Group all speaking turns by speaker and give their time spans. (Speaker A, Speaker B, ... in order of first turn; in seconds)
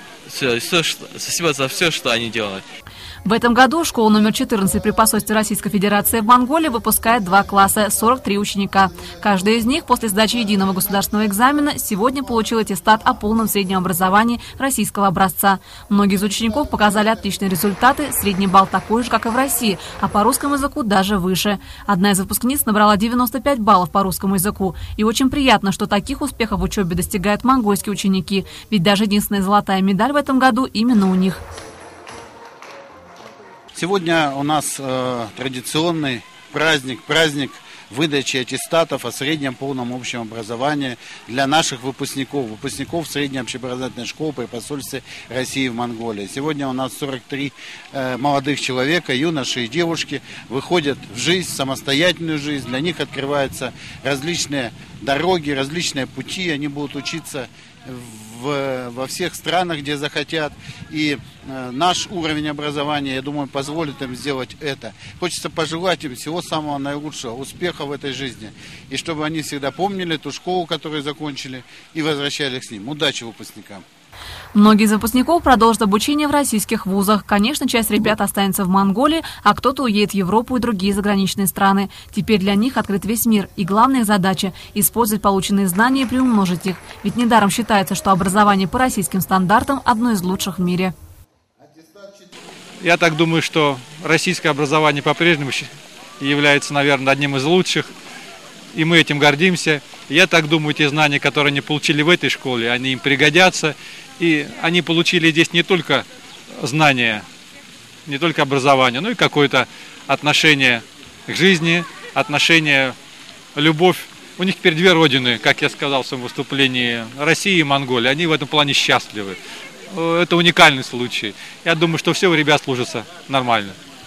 Speaker A: 0.2-2.6
Speaker B: 3.2-31.4, 74.5-90.9
Speaker C: 33.7-73.8, 91.8-92.2
Speaker D: 92.8-97.9, 98.7-107.2, 108.0-113.0, 113.5-119.4, 119.9-123.8